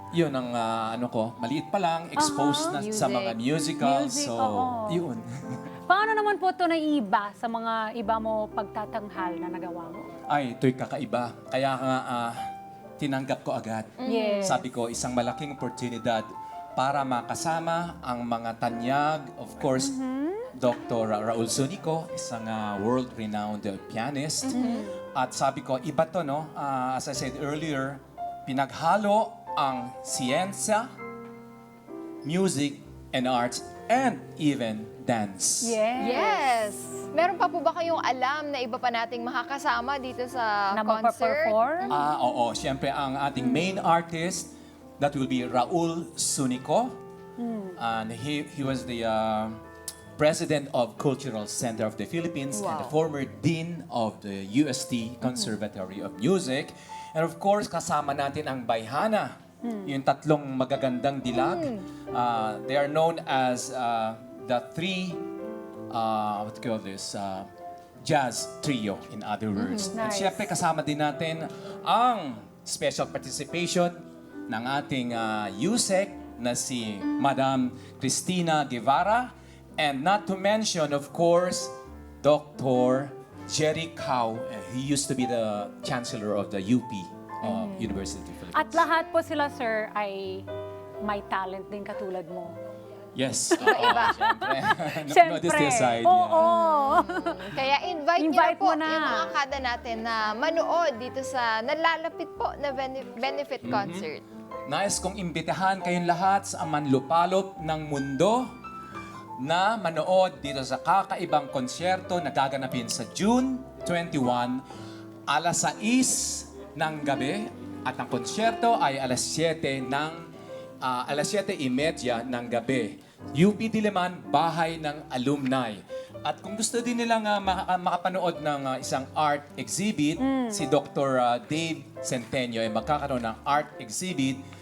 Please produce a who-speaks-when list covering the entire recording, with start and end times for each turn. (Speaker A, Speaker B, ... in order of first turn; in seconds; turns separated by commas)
Speaker A: 0.1-5.6, Speaker B: 2.2-2.8, Speaker C: 2.8-3.4, Speaker B: 3.8-5.0, Speaker B: 5.9-10.1, Speaker A: 10.3-12.4, Speaker A: 13.0-20.0, Speaker C: 14.0-14.6, Speaker B: 14.1-14.6, Speaker B: 19.8-20.5, Speaker A: 20.6-30.9, Speaker C: 24.5-24.9, Speaker B: 24.5-25.0, Speaker A: 32.2-35.8, Speaker B: 35.6-36.6, Speaker C: 36.0-42.0, Speaker B: 40.8-41.9, Speaker A: 41.9-47.0, Speaker C: 43.4-43.8, Speaker B: 47.4-47.8, Speaker A: 47.8-49.6, Speaker A: 50.2-65.2, Speaker C: 52.5-53.0, Speaker B: 59.6-59.9, Speaker C: 61.3-61.7, Speaker A: 65.9-67.5, Speaker A: 68.0-88.8, Speaker B: 69.6-70.5, Speaker C: 87.4-88.0, Speaker B: 88.5-90.5, Speaker B: 91.0-92.6, Speaker A: 93.1-96.5, Speaker B: 93.5-97.6, Speaker C: 93.6-94.2, Speaker C: 96.4-104.2, Speaker B: 98.2-99.3, Speaker A: 103.6-104.1, Speaker A: 104.7-108.5, Speaker A: 109.4-114.6, Speaker A: 115.3-120.3, Speaker A: 120.8-134.4, Speaker B: 130.2-130.7